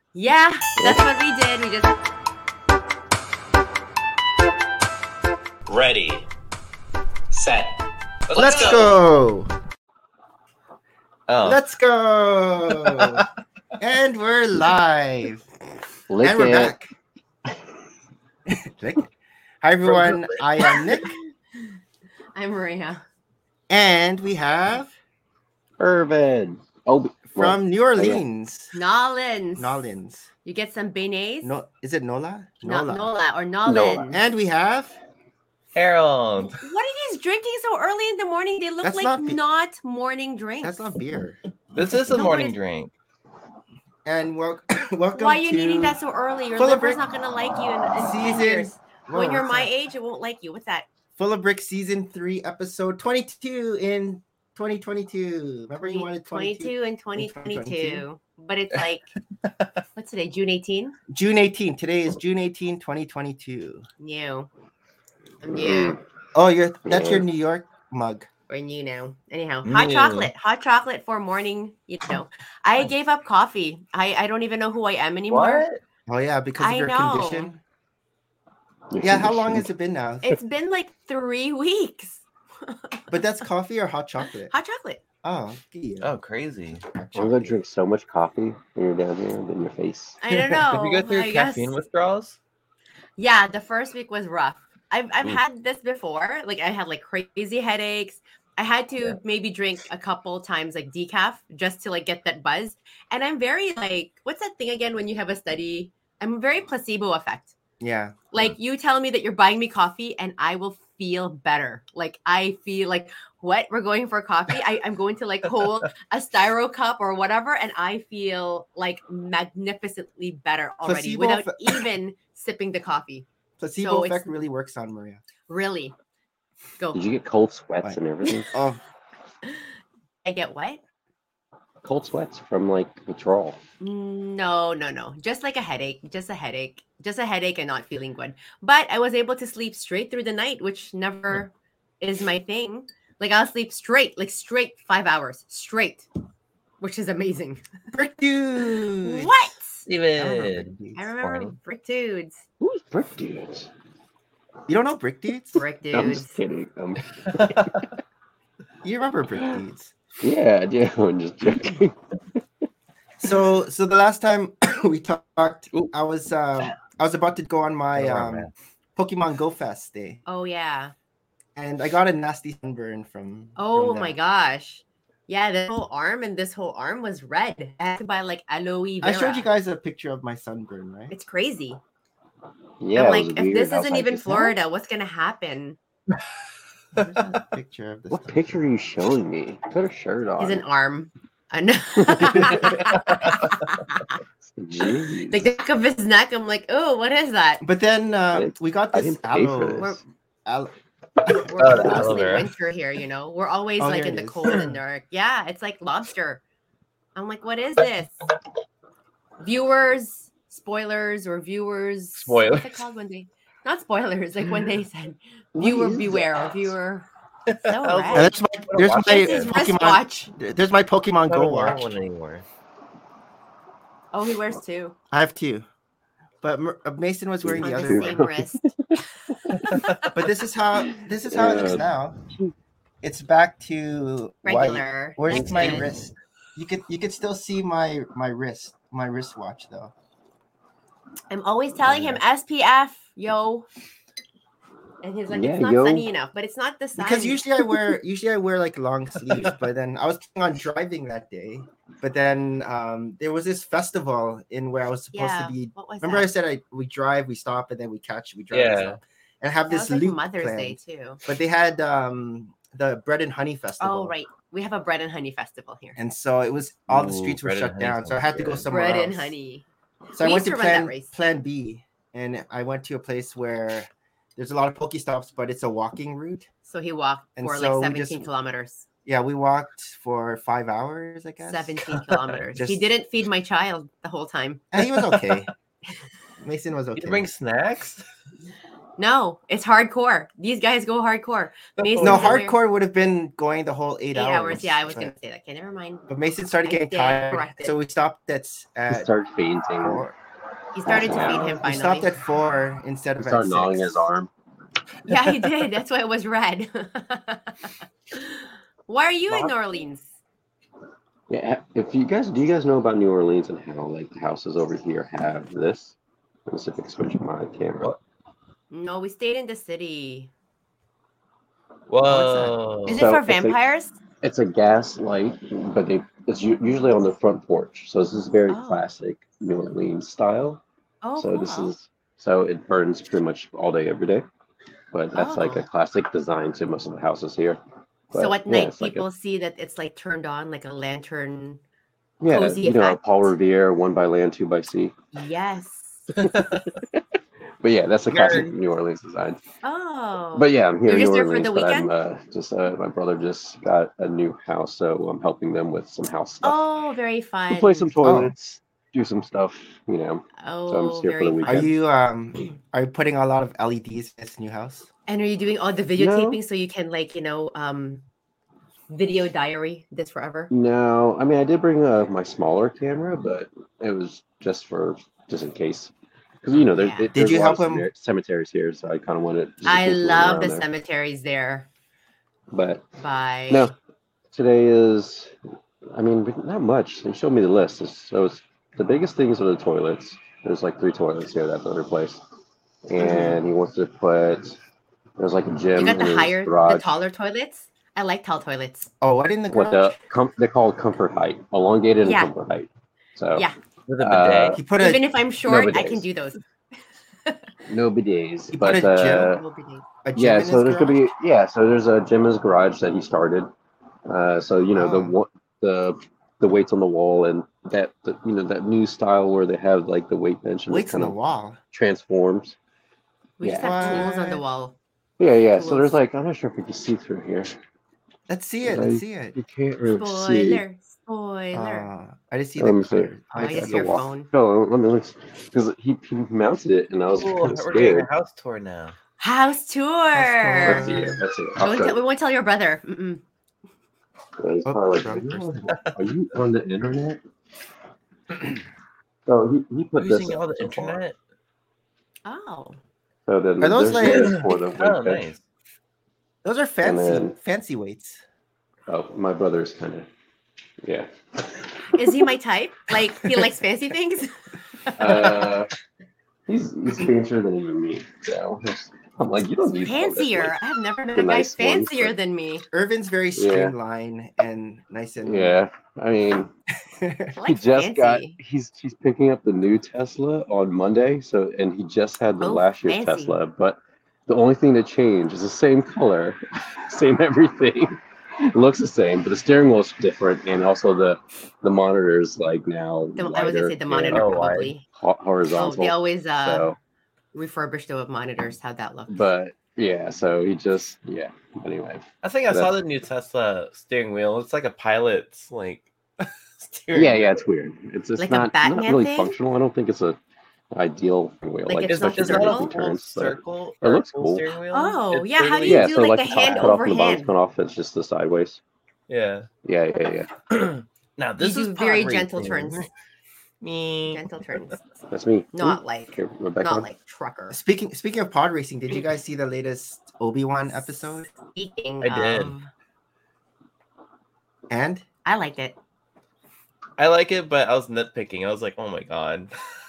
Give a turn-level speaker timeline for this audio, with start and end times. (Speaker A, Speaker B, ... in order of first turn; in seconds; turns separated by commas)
Speaker A: 0.1-1.9, Speaker B: 0.8-1.0, Speaker C: 5.7-6.3, Speaker C: 7.3-9.0, Speaker D: 8.3-9.5, Speaker C: 11.3-11.6, Speaker D: 11.4-13.2, Speaker C: 12.8-13.2, Speaker D: 13.8-15.5, Speaker B: 16.1-16.8, Speaker D: 16.2-16.9, Speaker D: 18.5-21.1, Speaker A: 20.7-21.8, Speaker A: 22.4-23.0, Speaker D: 23.7-24.9, Speaker B: 25.8-28.2, Speaker D: 27.4-28.8, Speaker A: 28.7-29.8, Speaker D: 29.6-30.3, Speaker A: 30.4-31.5, Speaker D: 31.4-33.1, Speaker A: 32.6-34.2, Speaker B: 33.7-34.1, Speaker D: 34.1-35.0, Speaker C: 35.8-36.6, Speaker A: 36.6-40.9, Speaker D: 38.8-39.4, Speaker D: 40.6-41.4, Speaker C: 41.8-42.9, Speaker A: 42.1-42.5, Speaker D: 44.0-46.0, Speaker A: 45.2-50.9, Speaker D: 46.5-47.0, Speaker D: 48.0-49.7, Speaker D: 51.2-58.0, Speaker A: 55.8-59.1, Speaker A: 60.0-61.0, Speaker D: 61.1-63.9, Speaker A: 64.0-64.5, Speaker A: 65.4-66.0, Speaker B: 65.5-66.0, Speaker D: 66.3-68.3, Speaker B: 66.8-67.2, Speaker A: 68.5-75.7, Speaker C: 69.7-70.3, Speaker C: 75.3-75.8, Speaker D: 76.1-77.6, Speaker A: 76.6-77.5, Speaker B: 78.9-79.7, Speaker D: 79.0-80.3, Speaker A: 80.2-83.1, Speaker D: 83.1-84.5, Speaker A: 84.5-85.0, Speaker D: 85.2-86.1, Speaker C: 86.0-86.8, Speaker D: 86.8-87.6, Speaker B: 87.1-90.2, Speaker A: 90.2-91.7, Speaker D: 90.3-90.7, Speaker C: 90.7-92.4, Speaker A: 93.2-107.5, Speaker D: 107.8-108.1, Speaker A: 108.3-123.2, Speaker D: 120.8-121.9, Speaker D: 123.6-125.2, Speaker A: 123.8-124.4, Speaker A: 125.5-126.0, Speaker B: 126.9-128.5, Speaker D: 128.5-128.8, Speaker A: 130.2-130.8, Speaker B: 131.8-133.6, Speaker A: 133.8-146.1, Speaker A: 146.8-147.6, Speaker D: 147.9-149.3, Speaker A: 149.0-149.9, Speaker C: 149.8-151.6, Speaker D: 150.2-151.0, Speaker A: 150.9-152.4, Speaker B: 152.6-153.7, Speaker D: 154.7-155.6, Speaker A: 155.6-156.3, Speaker B: 155.9-157.8, Speaker C: 157.3-157.8, Speaker D: 158.8-159.9, Speaker B: 160.2-162.4, Speaker D: 163.2-170.2, Speaker C: 167.9-168.5, Speaker A: 170.2-170.9, Speaker D: 171.6-174.2, Speaker A: 173.6-179.5, Speaker D: 179.0-181.1, Speaker A: 181.1-181.8, Speaker B: 182.8-184.6, Speaker A: 182.9-185.8, Speaker D: 186.9-188.6, Speaker B: 188.1-190.6, Speaker A: 190.4-194.2, Speaker B: 192.1-192.8, Speaker C: 192.8-193.7, Speaker B: 194.4-195.4, Speaker A: 195.3-197.6, Speaker D: 197.6-200.7, Speaker B: 198.3-200.0, Speaker D: 201.2-202.2, Speaker A: 201.3-206.4, Speaker C: 201.6-202.5, Speaker D: 203.8-204.6, Speaker A: 207.1-208.2, Speaker A: 209.4-217.1, Speaker C: 212.1-212.8, Speaker B: 215.5-216.8, Speaker C: 217.5-219.5, Speaker A: 217.6-218.3, Speaker D: 218.1-221.9, Speaker A: 219.0-220.3, Speaker C: 221.2-222.4, Speaker A: 224.1-224.9, Speaker D: 225.1-225.6, Speaker D: 226.4-228.2, Speaker B: 227.4-229.8, Speaker A: 227.6-228.6, Speaker A: 229.3-230.1, Speaker C: 229.5-230.0, Speaker D: 230.1-232.2, Speaker B: 230.9-232.5, Speaker D: 233.0-239.9, Speaker A: 234.4-235.9, Speaker B: 235.3-236.0, Speaker A: 241.3-243.7, Speaker B: 241.8-242.2, Speaker A: 245.0-247.4, Speaker B: 245.3-246.1, Speaker D: 247.0-264.1, Speaker A: 255.1-256.3, Speaker C: 258.5-259.0, Speaker A: 259.7-261.2, Speaker A: 263.8-266.0, Speaker D: 266.0-269.3, Speaker C: 266.9-268.7, Speaker A: 268.7-269.7, Speaker D: 270.1-276.5, Speaker A: 270.2-271.1, Speaker A: 276.7-278.9, Speaker D: 277.4-278.3, Speaker D: 279.1-281.8, Speaker A: 281.4-284.6, Speaker C: 282.1-282.4, Speaker D: 282.6-282.9, Speaker D: 284.7-285.5, Speaker C: 284.8-285.4, Speaker D: 286.4-287.3, Speaker C: 286.9-288.0, Speaker A: 289.0-292.6, Speaker C: 291.8-292.4, Speaker D: 292.0-295.1, Speaker A: 294.1-296.1, Speaker D: 296.1-299.1, Speaker A: 296.6-297.8, Speaker B: 298.9-300.1, Speaker D: 299.8-300.1, Speaker A: 300.8-302.1, Speaker B: 300.9-301.6, Speaker D: 301.1-304.1, Speaker B: 303.2-304.3, Speaker A: 305.1-310.1, Speaker B: 311.3-315.9, Speaker B: 316.5-317.9, Speaker A: 318.7-320.3, Speaker C: 321.9-323.1, Speaker A: 322.1-323.9, Speaker B: 322.9-323.6, Speaker B: 324.2-330.6, Speaker A: 328.5-328.9, Speaker A: 331.0-331.7, Speaker B: 331.2-334.3, Speaker B: 334.9-337.6, Speaker A: 335.1-335.7, Speaker B: 338.1-339.1, Speaker A: 338.2-341.6, Speaker B: 342.2-344.9, Speaker A: 342.3-343.0, Speaker A: 345.1-346.1, Speaker C: 346.1-346.7, Speaker B: 346.2-347.0, Speaker B: 347.6-349.4, Speaker C: 348.1-348.5, Speaker A: 349.6-351.9, Speaker B: 350.4-356.6, Speaker A: 356.4-357.9, Speaker B: 357.5-361.7, Speaker D: 358.0-358.3, Speaker A: 360.4-361.7, Speaker D: 361.5-364.9, Speaker A: 365.1-368.0, Speaker B: 366.0-366.4, Speaker A: 368.9-370.5, Speaker B: 370.5-380.7, Speaker A: 376.8-377.1, Speaker D: 377.1-377.9, Speaker A: 379.6-381.7, Speaker B: 382.5-382.9, Speaker A: 383.0-383.7, Speaker B: 383.5-383.8, Speaker B: 384.3-385.3, Speaker B: 385.9-392.2, Speaker B: 392.9-394.6, Speaker D: 393.0-393.4, Speaker B: 395.2-396.9, Speaker A: 395.8-398.9, Speaker D: 399.0-399.9, Speaker B: 399.5-403.5, Speaker A: 402.0-402.3, Speaker C: 403.9-404.6, Speaker B: 404.0-404.6, Speaker D: 404.5-405.1, Speaker A: 404.8-406.4, Speaker B: 405.5-406.1, Speaker A: 407.2-407.5, Speaker B: 407.7-409.4, Speaker D: 408.5-409.3, Speaker A: 409.1-409.9, Speaker D: 410.0-411.0, Speaker B: 410.2-413.5, Speaker B: 414.1-421.2, Speaker D: 414.7-415.1, Speaker D: 420.7-421.6, Speaker B: 421.7-422.6, Speaker A: 423.4-424.8, Speaker B: 423.4-424.1, Speaker D: 423.6-424.4, Speaker B: 425.2-427.6, Speaker A: 425.6-426.0, Speaker D: 428.3-429.4, Speaker B: 428.6-430.6, Speaker A: 429.9-431.9, Speaker D: 431.5-434.1, Speaker B: 432.6-438.1, Speaker A: 433.4-434.3, Speaker C: 437.2-439.0, Speaker A: 439.2-441.0, Speaker D: 440.1-441.2, Speaker B: 440.6-442.0, Speaker A: 441.6-443.2, Speaker B: 444.4-447.2, Speaker D: 444.7-445.7, Speaker C: 445.7-445.9, Speaker B: 449.3-451.0, Speaker C: 450.0-451.2, Speaker A: 452.2-452.8, Speaker B: 453.2-455.3, Speaker D: 453.6-454.4, Speaker C: 454.0-455.4, Speaker D: 456.4-458.2, Speaker B: 456.8-457.4, Speaker B: 458.9-460.1, Speaker B: 460.8-462.2, Speaker A: 461.9-465.5, Speaker B: 465.0-465.7, Speaker B: 466.5-470.6, Speaker A: 469.8-472.6, Speaker B: 471.1-472.1, Speaker D: 472.7-475.6, Speaker B: 473.4-473.8, Speaker B: 475.2-476.5, Speaker D: 476.9-477.4, Speaker A: 477.4-478.4, Speaker B: 477.5-496.8, Speaker A: 482.4-483.4, Speaker A: 493.2-494.9, Speaker C: 494.1-494.7, Speaker A: 495.5-496.7, Speaker A: 497.3-499.2, Speaker B: 499.1-502.8, Speaker C: 502.2-507.3, Speaker B: 506.9-510.2, Speaker A: 508.2-509.4, Speaker B: 510.7-514.5, Speaker A: 511.7-512.7, Speaker C: 511.9-516.0, Speaker A: 514.7-517.3, Speaker B: 515.6-518.6, Speaker C: 519.1-519.5, Speaker B: 519.6-520.4, Speaker C: 520.5-522.9, Speaker A: 521.4-522.9, Speaker C: 523.6-524.6, Speaker A: 524.1-524.8, Speaker B: 525.1-526.9, Speaker A: 525.5-527.6, Speaker D: 527.5-531.3, Speaker A: 531.4-532.7, Speaker C: 532.0-532.6, Speaker D: 534.7-535.0, Speaker A: 535.2-535.8, Speaker C: 537.0-539.5